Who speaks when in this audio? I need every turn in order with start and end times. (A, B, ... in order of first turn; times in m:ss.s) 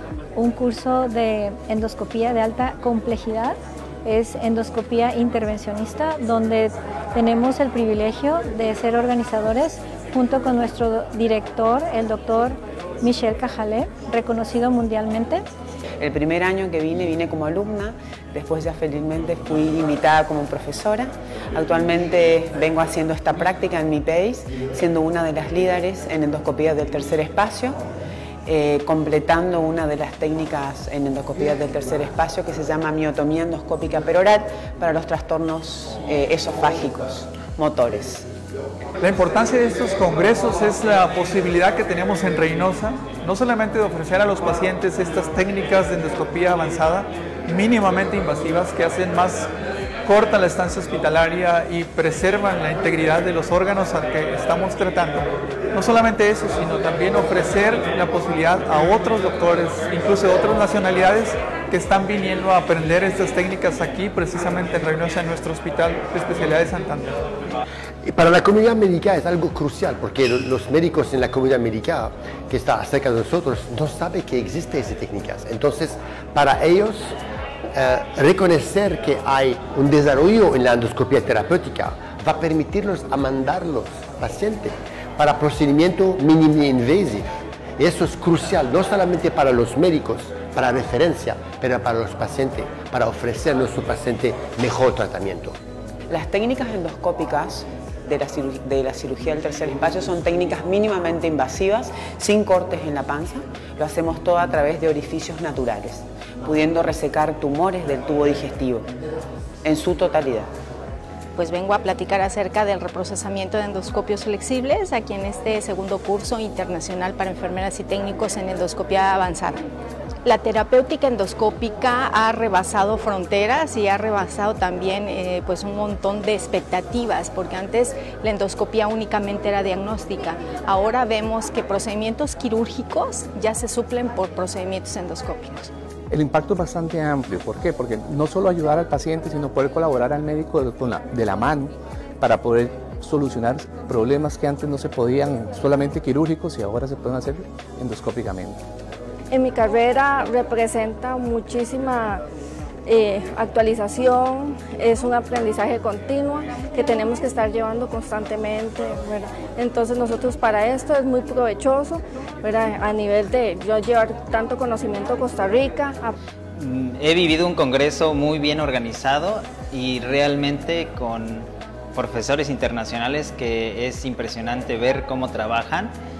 0:00.3-0:15.4 A
0:16.0-0:27.8 B
0:28.4-0:38.3 B
0:39.0-0:49.5 C
0:50.0-1:07.1 C
1:08.0-1:17.1 D
1:17.7-1:27.2 D
1:27.8-1:35.6 D
1:36.1-1:48.9 B
1:49.6-1:50.5 B
1:51.4-1:59.6 E
2:00.2-2:15.7 E
2:16.1-2:28.6 F
2:29.3-2:32.2 G
2:32.8-2:46.1 G
2:46.5-2:55.9 H